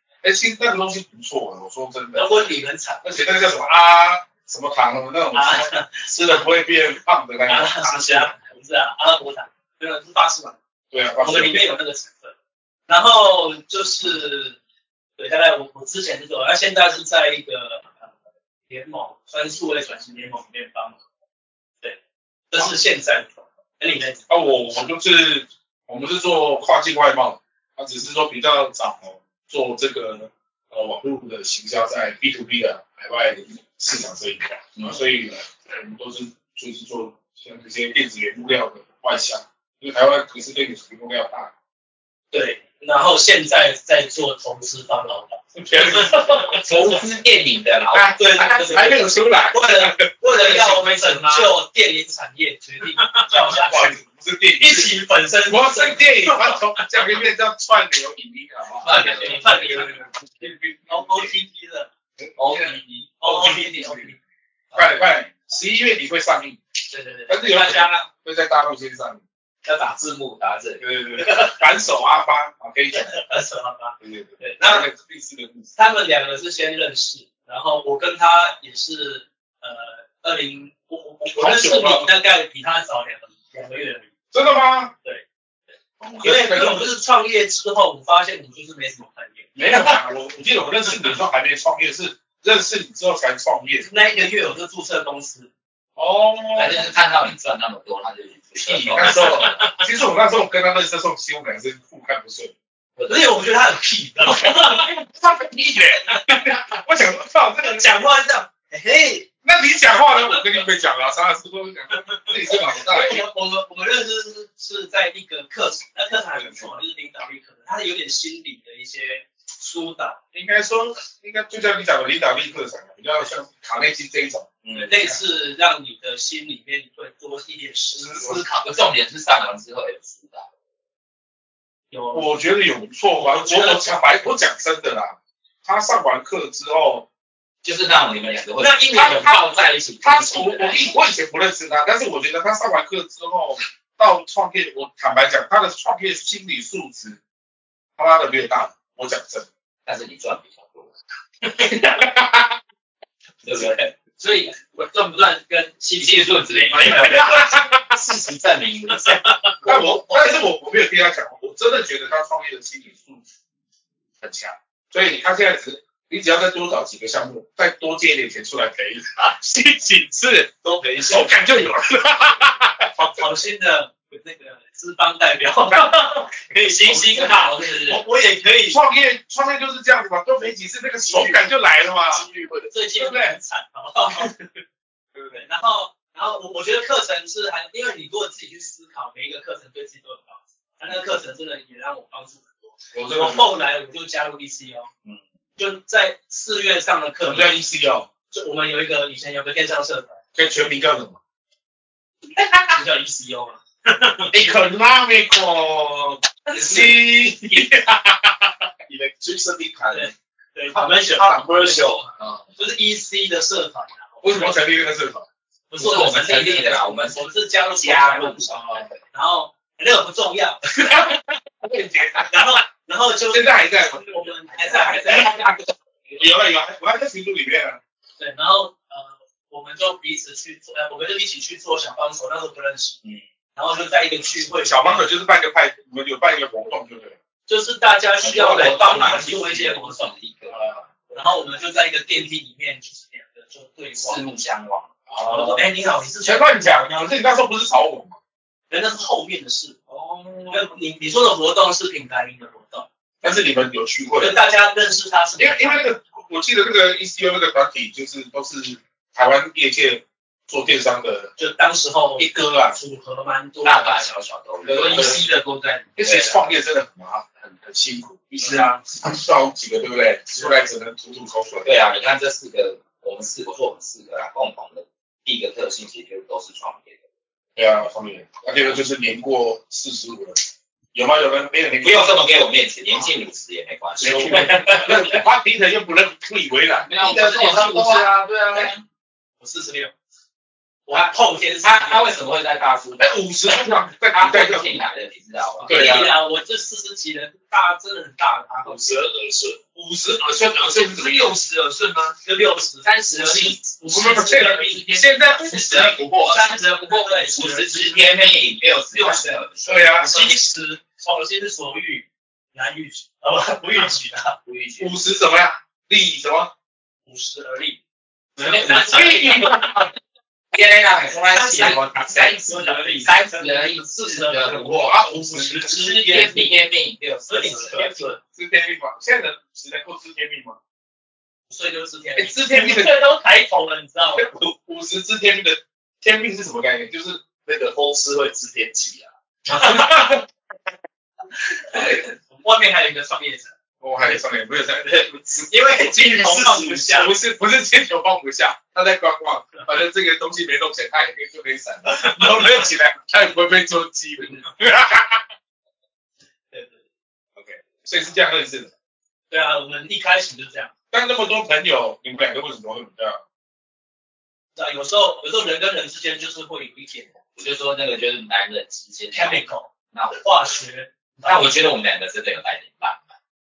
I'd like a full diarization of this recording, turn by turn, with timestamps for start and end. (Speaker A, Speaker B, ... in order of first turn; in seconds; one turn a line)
Speaker A: 0.2-2.5
Speaker B: 2.1-3.0
Speaker A: 3.0-8.3
Speaker B: 5.3-6.4
Speaker B: 7.5-10.6
Speaker A: 10.9-11.8
Speaker B: 11.2-12.3
Speaker B: 12.9-14.6
Speaker B: 15.2-17.9
Speaker B: 18.7-21.0
Speaker B: 22.5-24.4
Speaker A: 24.3-41.5
Speaker B: 42.3-46.6
Speaker A: 45.5-46.6
Speaker C: 46.5-48.6
Speaker A: 47.9-50.1
Speaker B: 48.2-54.0
Speaker D: 50.3-51.5
Speaker D: 52.9-53.2
Speaker A: 53.3-61.3
Speaker B: 54.6-56.8
Speaker C: 58.8-59.4
Speaker B: 58.9-60.0
Speaker D: 58.9-60.0
Speaker B: 60.9-61.9
Speaker A: 62.2-64.1
Speaker B: 63.2-64.2
Speaker A: 64.7-66.6
Speaker B: 67.0-67.3
Speaker A: 67.3-69.2
Speaker D: 67.6-67.8
Speaker C: 69.6-70.8
Speaker A: 70.8-73.2
Speaker B: 71.2-71.6
Speaker B: 73.0-74.0
Speaker A: 74.0-75.7
Speaker B: 74.6-74.9
Speaker B: 75.8-84.1
Speaker A: 81.2-82.1
Speaker A: 84.3-84.9
Speaker A: 86.0-86.9
Speaker B: 86.2-90.0
Speaker A: 89.6-93.9
Speaker B: 93.8-95.5
Speaker A: 96.0-96.9
Speaker C: 96.6-99.7
Speaker A: 98.6-102.5
Speaker B: 99.4-99.7
Speaker C: 103.0-103.4
Speaker B: 103.1-104.9
Speaker A: 104.3-107.9
Speaker B: 107.6-109.3
Speaker A: 109.4-113.2
Speaker B: 112.0-120.2
Speaker A: 116.3-116.8
Speaker A: 120.3-124.6
Speaker C: 124.6-125.1
Speaker B: 124.8-128.8
Speaker A: 127.9-128.5
Speaker C: 128.6-130.5
Speaker B: 131.9-132.4
Speaker A: 132.1-137.1
Speaker B: 133.2-133.9
Speaker C: 137.6-140.9
Speaker A: 138.9-139.3
Speaker A: 140.0-147.2
Speaker A: 148.0-149.5
Speaker C: 149.9-150.9
Speaker A: 151.8-152.4
Speaker C: 153.4-153.9
Speaker D: 154.2-157.5
Speaker C: 156.0-159.3
Speaker B: 159.0-160.0
Speaker A: 159.6-163.2
Speaker A: 164.2-173.2
Speaker C: 170.8-171.2
Speaker B: 173.0-178.8
Speaker D: 176.7-178.0
Speaker C: 176.8-177.9
Speaker A: 178.7-182.3
Speaker B: 181.1-181.4
Speaker C: 182.3-182.6
Speaker B: 182.7-184.6
Speaker A: 183.0-183.3
Speaker A: 185.1-185.4
Speaker B: 185.3-194.9
Speaker A: 192.9-193.7
Speaker B: 195.6-197.6
Speaker A: 197.2-198.1
Speaker B: 198.3-200.2
Speaker A: 200.3-201.2
Speaker B: 202.8-204.5
Speaker A: 204.3-210.1
Speaker B: 206.5-206.9
Speaker B: 209.9-214.8
Speaker A: 210.8-212.3
Speaker A: 214.2-215.3
Speaker B: 215.7-221.2
Speaker C: 215.8-219.0
Speaker A: 220.9-222.4
Speaker B: 222.2-225.4
Speaker A: 223.3-225.4
Speaker C: 224.7-225.6
Speaker A: 226.2-227.8
Speaker B: 228.2-233.0
Speaker B: 233.6-235.1
Speaker A: 234.6-237.2
Speaker B: 237.5-244.2
Speaker C: 238.2-240.7
Speaker C: 243.9-245.1
Speaker A: 245.1-245.6
Speaker B: 245.2-246.6
Speaker A: 246.2-248.2
Speaker B: 248.7-249.8
Speaker B: 250.5-252.9
Speaker A: 253.2-254.4
Speaker B: 254.2-255.8
Speaker A: 255.4-261.3
Speaker B: 261.4-264.1
Speaker A: 262.2-262.8
Speaker C: 263.6-265.2
Speaker A: 264.6-265.2
Speaker D: 264.7-265.9
Speaker A: 266.0-271.7
Speaker C: 266.0-266.4
Speaker C: 271.6-277.0
Speaker A: 277.6-280.4
Speaker A: 280.9-282.3
Speaker C: 281.8-285.2
Speaker A: 284.0-287.2
Speaker D: 286.9-288.8
Speaker C: 287.2-288.8
Speaker B: 289.4-289.9
Speaker B: 290.9-292.2
Speaker C: 291.6-293.1
Speaker A: 293.0-294.8
Speaker C: 294.1-296.1
Speaker A: 295.6-296.2
Speaker B: 295.6-299.2
Speaker A: 298.7-301.3
Speaker D: 300.3-302.2
Speaker B: 302.2-304.8
Speaker D: 302.8-308.4
Speaker A: 303.9-306.4
Speaker B: 306.2-308.0
Speaker C: 307.4-310.1
Speaker D: 308.9-309.3
Speaker A: 309.7-310.1
Speaker D: 309.9-310.4
Speaker B: 310.1-314.4
Speaker C: 314.4-315.0
Speaker A: 314.8-316.5
Speaker B: 317.1-317.8
Speaker B: 318.4-319.5
Speaker D: 318.4-319.6
Speaker A: 318.8-319.8
Speaker C: 318.9-319.4
Speaker C: 320.5-324.9
Speaker D: 321.1-322.7
Speaker B: 321.6-326.6
Speaker A: 324.5-326.1
Speaker D: 325.8-326.4
Speaker C: 326.0-327.9
Speaker B: 327.3-328.2
Speaker A: 327.7-330.6
Speaker B: 331.5-334.3
Speaker A: 332.2-333.0
Speaker A: 334.1-338.9
Speaker A: 339.5-340.3
Speaker B: 339.5-339.9
Speaker B: 341.7-343.5
Speaker A: 343.8-355.2
Speaker B: 345.0-347.2
Speaker B: 351.9-352.6
Speaker B: 356.5-356.8
Speaker A: 357.4-358.7
Speaker B: 359.3-360.7
Speaker A: 360.9-363.2
Speaker B: 364.6-367.1
Speaker C: 367.4-370.2
Speaker B: 369.1-371.6
Speaker C: 371.2-373.1